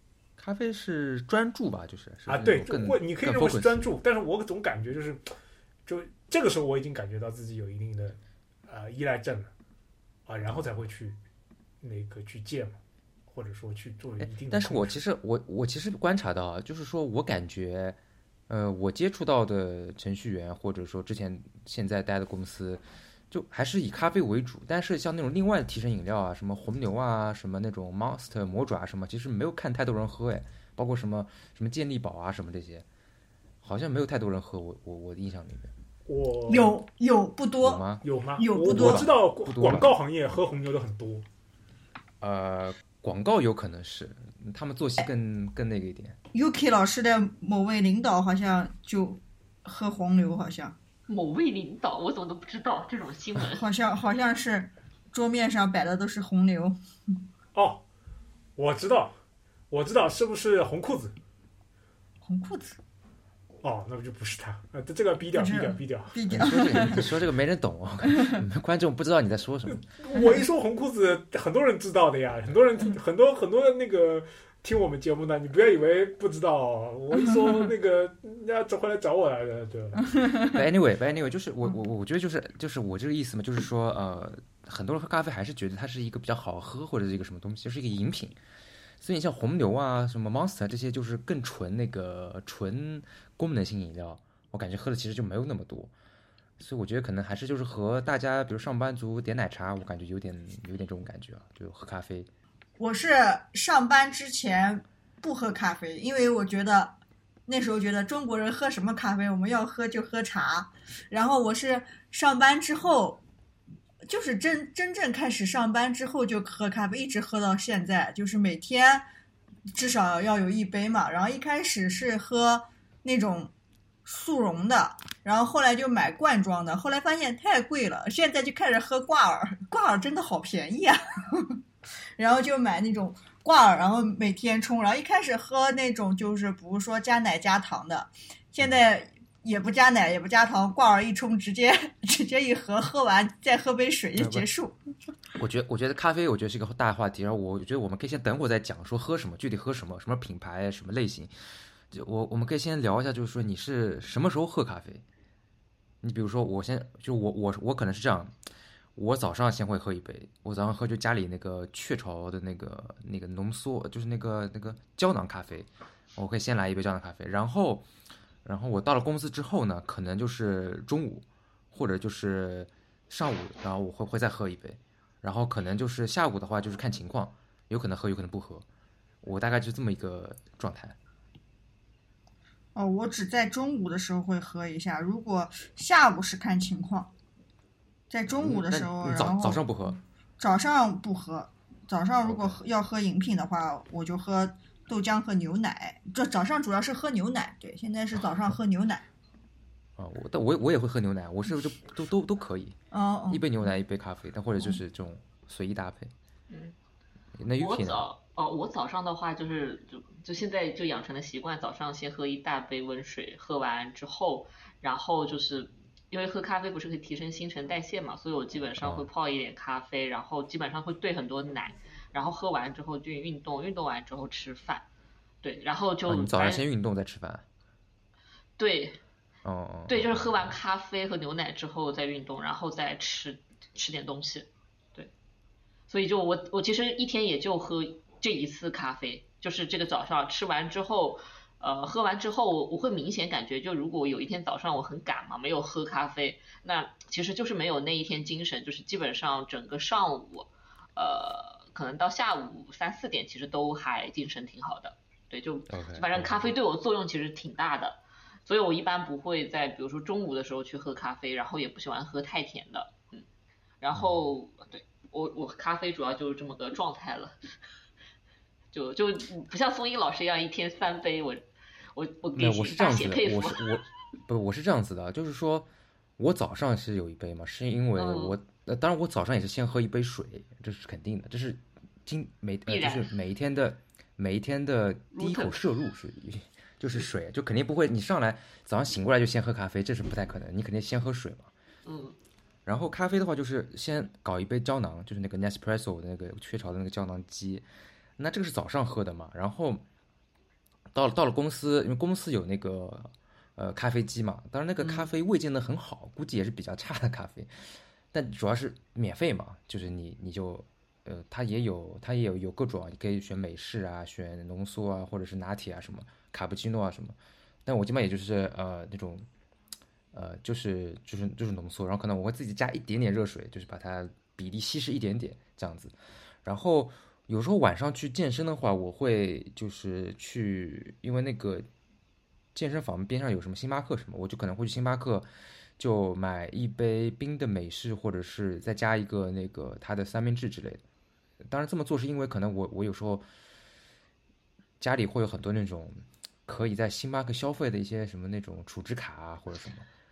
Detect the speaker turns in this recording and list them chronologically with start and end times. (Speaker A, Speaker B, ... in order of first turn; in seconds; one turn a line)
Speaker A: 0.4-3.9
Speaker B: 2.3-5.2
Speaker B: 5.9-9.5
Speaker B: 10.2-11.2
Speaker B: 11.8-14.9
Speaker A: 14.2-32.9
Speaker A: 33.6-35.7
Speaker B: 36.1-36.8
Speaker C: 36.5-37.9
Speaker A: 37.6-38.0
Speaker B: 38.0-41.3
Speaker C: 38.4-39.1
Speaker A: 38.6-39.9
Speaker A: 42.2-46.2
Speaker C: 46.3-50.8
Speaker D: 51.1-53.6
Speaker C: 53.5-56.8
Speaker B: 57.5-57.8
Speaker B: 58.6-59.2
Speaker B: 59.7-61.2
Speaker C: 62.2-62.8
Speaker B: 63.6-67.1
Speaker C: 65.3-67.0
Speaker A: 66.3-69.8
Speaker B: 69.7-80.3
Speaker C: 70.1-70.4
Speaker A: 80.5-88.4
Speaker A: 89.0-95.9
Speaker A: 96.6-102.3
Speaker C: 102.8-106.9
Speaker C: 107.5-113.2
Speaker C: 114.1-119.1
Speaker C: 119.7-123.5
Speaker C: 124.1-131.6
Speaker C: 132.2-144.8
Speaker A: 144.1-144.5
Speaker A: 145.4-151.3
Speaker A: 151.9-155.0
Speaker A: 156.0-158.3
Speaker A: 158.9-167.9
Speaker A: 168.4-178.7
Speaker A: 179.2-180.9
Speaker C: 182.8-187.1
Speaker C: 188.1-189.6
Speaker A: 188.3-190.0
Speaker C: 190.4-199.0
Speaker A: 192.2-192.6
Speaker A: 200.0-202.8
Speaker C: 202.9-203.4
Speaker A: 203.3-206.1
Speaker D: 206.5-206.8
Speaker A: 207.4-208.1
Speaker D: 207.6-224.9
Speaker A: 218.8-219.1
Speaker D: 225.4-226.6
Speaker A: 226.1-227.4
Speaker D: 228.6-229.0
Speaker A: 229.4-230.6
Speaker D: 229.9-235.1
Speaker D: 235.9-263.2
Speaker A: 255.7-256.5
Speaker D: 263.8-267.4
Speaker A: 263.9-264.3
Speaker D: 268.7-273.8
Speaker A: 272.4-275.7
Speaker A: 276.2-291.5
Speaker D: 278.0-278.4
Speaker D: 282.7-283.1
Speaker D: 285.1-285.6
Speaker D: 291.9-292.1
Speaker A: 292.6-297.7
Speaker A: 298.2-299.9
Speaker A: 300.9-307.5
Speaker D: 304.8-305.1
Speaker A: 308.1-319.3
Speaker A: 320.1-331.7
Speaker A: 332.5-335.3
Speaker A: 335.8-340.8
Speaker A: 341.4-343.2
Speaker A: 344.8-349.9